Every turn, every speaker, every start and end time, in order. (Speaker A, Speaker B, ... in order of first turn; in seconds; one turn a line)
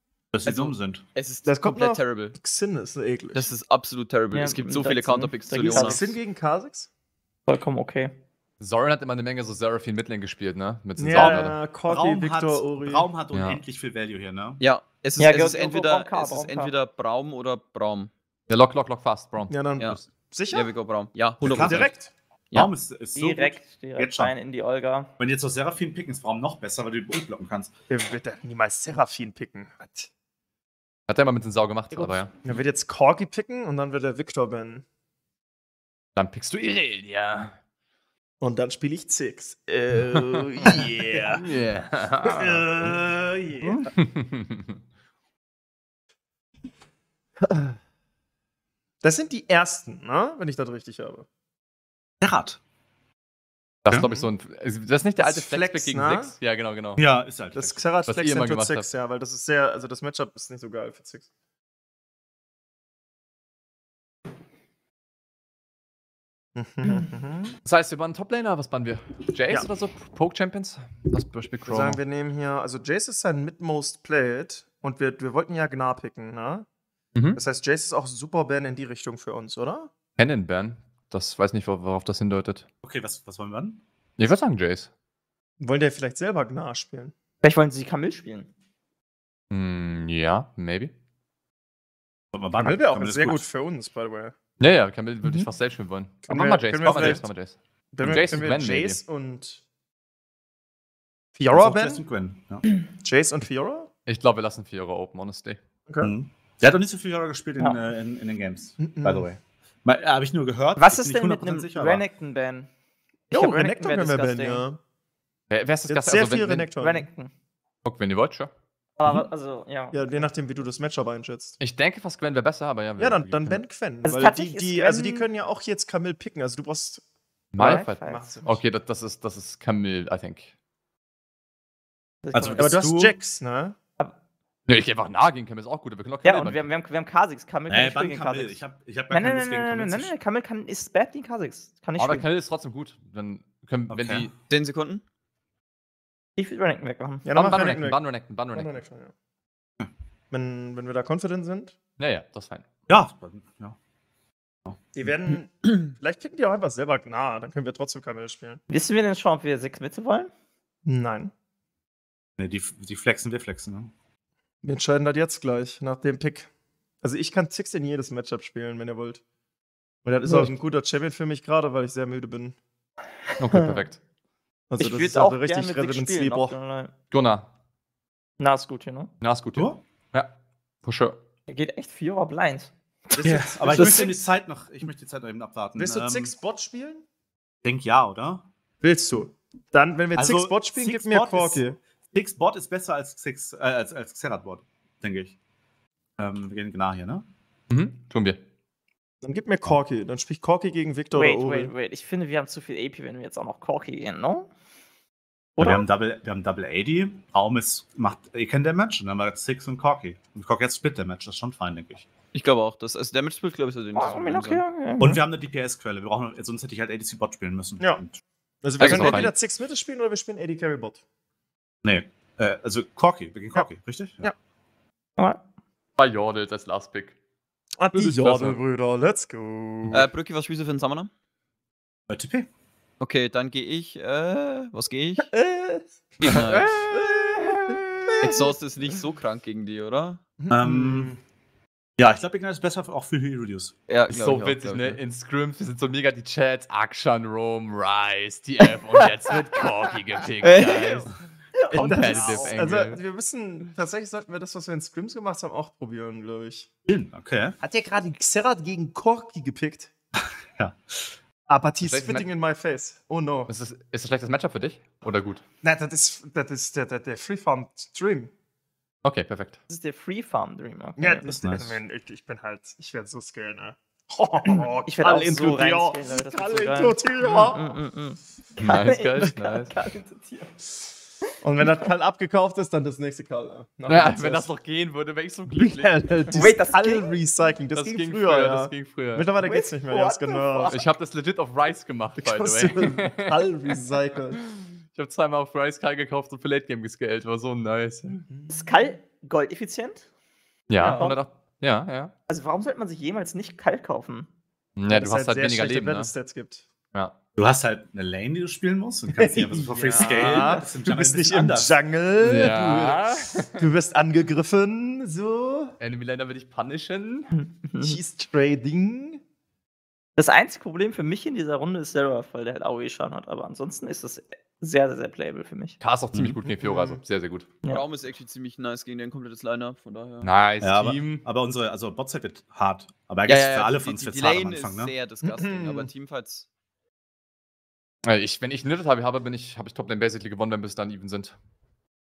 Speaker A: 0.3-1.0
Speaker B: 0.5-2.4
Speaker C: 1.4-3.5
Speaker B: 3.3-6.0
Speaker D: 4.3-6.1
Speaker C: 5.6-6.9
Speaker D: 7.5-8.2
Speaker E: 8.6-11.6
Speaker C: 11.0-13.1
Speaker A: 11.8-14.6
Speaker E: 13.3-13.6
Speaker B: 14.6-18.1
Speaker D: 15.2-16.7
Speaker E: 18.5-20.1
Speaker C: 19.5-20.7
Speaker B: 20.5-21.9
Speaker A: 21.4-21.9
Speaker C: 21.6-22.1
Speaker A: 22.5-24.4
Speaker D: 23.2-25.1
Speaker A: 25.2-27.7
Speaker C: 27.9-30.1
Speaker E: 31.1-32.4
Speaker C: 32.4-34.8
Speaker E: 36.2-37.6
Speaker C: 38.4-41.5
Speaker E: 40.6-42.7
Speaker C: 42.2-43.8
Speaker E: 43.9-44.8
Speaker C: 47.4-47.8
Speaker C: 49.0-51.3
Speaker A: 52.2-52.6
Speaker E: 53.8-57.1
Speaker C: 53.9-54.3
Speaker C: 55.2-56.4
Speaker A: 57.0-57.8
Speaker C: 57.5-61.3
Speaker E: 58.1-58.9
Speaker C: 66.5-67.6
Speaker E: 67.7-72.0
Speaker C: 71.7-76.7
Speaker E: 77.2-77.4
Speaker C: 77.3-79.9
Speaker E: 80.2-82.7
Speaker A: 82.8-83.8
Speaker E: 84.2-84.9
Speaker C: 85.6-87.1
Speaker D: 87.4-88.5
Speaker E: 89.5-90.9
Speaker A: 92.3-93.5
Speaker C: 92.6-94.4
Speaker E: 94.6-99.0
Speaker C: 96.2-97.3
Speaker A: 96.8-97.2
Speaker C: 97.9-99.6
Speaker A: 98.0-98.4
Speaker C: 101.4-102.0
Speaker A: 101.5-102.6
Speaker C: 102.9-103.9
Speaker E: 104.1-105.6
Speaker C: 105.9-106.1
Speaker A: 106.0-112.0
Speaker C: 108.8-109.3
Speaker D: 110.8-112.7
Speaker D: 113.3-114.6
Speaker C: 113.3-114.8
Speaker E: 115.5-116.7
Speaker C: 115.9-117.0
Speaker D: 116.8-117.3
Speaker E: 117.8-118.5
Speaker D: 119.0-120.3
Speaker C: 119.9-121.6
Speaker E: 121.6-123.6
Speaker C: 123.0-127.0
Speaker D: 124.0-125.3
Speaker E: 127.5-130.5
Speaker C: 127.6-128.6
Speaker D: 127.6-128.3
Speaker D: 132.2-132.7
Speaker A: 132.3-133.2
Speaker C: 132.6-133.8
Speaker E: 134.7-136.6
Speaker D: 136.2-142.3
Speaker A: 137.7-140.1
Speaker E: 142.0-144.3
Speaker A: 143.9-144.3
Speaker B: 144.5-145.0
Speaker D: 146.4-147.3
Speaker C: 147.2-149.1
Speaker E: 147.3-148.8
Speaker C: 150.3-151.8
Speaker E: 152.0-152.7
Speaker A: 152.9-153.8
Speaker A: 154.7-155.1
Speaker C: 154.9-158.6
Speaker D: 158.7-160.3
Speaker C: 160.8-161.3
Speaker A: 162.4-163.9
Speaker C: 164.6-166.5
Speaker C: 167.0-169.2
Speaker C: 170.1-172.6
Speaker D: 170.3-170.5
Speaker D: 173.4-173.8
Speaker E: 173.4-174.0
Speaker C: 174.7-176.6
Speaker D: 174.8-176.9
Speaker E: 177.1-177.5
Speaker D: 178.4-179.1
Speaker E: 179.2-180.3
Speaker A: 179.5-179.8
Speaker E: 180.8-181.2
Speaker D: 181.5-184.2
Speaker B: 183.2-184.1
Speaker C: 183.2-183.9
Speaker A: 183.2-186.3
Speaker C: 185.8-187.0
Speaker A: 187.6-188.5
Speaker C: 188.8-191.8
Speaker A: 190.2-195.3
Speaker A: 196.2-197.2
Speaker E: 197.7-198.4
Speaker C: 199.2-201.7
Speaker D: 201.1-204.5
Speaker D: 205.6-205.8
Speaker A: 205.6-212.1
Speaker B: 212.3-214.6
Speaker D: 213.9-215.1
Speaker A: 215.0-218.2
Speaker C: 218.6-221.0
Speaker B: 218.8-219.3
Speaker E: 218.8-219.3
Speaker A: 221.8-224.3
Speaker E: 226.0-227.1
Speaker C: 227.8-230.1
Speaker E: 228.0-228.6
Speaker B: 229.9-231.1
Speaker A: 232.1-232.5
Speaker B: 233.0-235.3
Speaker C: 235.3-238.6
Speaker B: 236.2-236.8
Speaker B: 238.2-240.2
Speaker C: 240.4-241.2
Speaker A: 240.5-241.2
Speaker A: 242.0-243.7
Speaker B: 243.9-245.0
Speaker E: 244.1-251.1
Speaker B: 250.4-251.1
Speaker D: 251.5-252.5
Speaker C: 251.7-256.7
Speaker E: 251.7-253.0
Speaker A: 256.9-257.6
Speaker C: 257.6-259.9
Speaker A: 260.6-261.1
Speaker C: 261.5-263.5
Speaker E: 261.8-262.3
Speaker E: 263.5-265.4
Speaker C: 265.6-268.3
Speaker E: 269.0-269.6
Speaker D: 269.7-271.3
Speaker C: 271.0-277.7
Speaker A: 271.3-271.8
Speaker D: 274.5-280.6
Speaker E: 277.2-277.5
Speaker E: 278.6-279.8
Speaker C: 281.4-284.5
Speaker E: 283.9-285.9
Speaker C: 285.6-290.8
Speaker D: 286.3-287.2
Speaker E: 287.8-289.3
Speaker D: 289.4-290.8
Speaker E: 290.7-293.5
Speaker C: 292.2-294.4
Speaker E: 294.3-298.2
Speaker D: 298.5-300.1
Speaker E: 300.7-302.1
Speaker D: 300.8-301.2
Speaker D: 302.3-304.3
Speaker E: 304.8-306.1
Speaker C: 304.9-306.7
Speaker A: 307.4-311.8
Speaker C: 309.2-315.8
Speaker D: 310.0-310.6
Speaker E: 312.2-313.6
Speaker E: 315.8-317.3
Speaker D: 317.4-318.0
Speaker C: 317.8-319.2
Speaker D: 320.2-325.8
Speaker E: 325.8-327.5
Speaker C: 326.6-327.0
Speaker B: 327.6-330.3
Speaker E: 330.2-331.2
Speaker A: 330.6-334.9
Speaker B: 333.3-336.5
Speaker C: 335.2-335.9
Speaker E: 338.1-341.4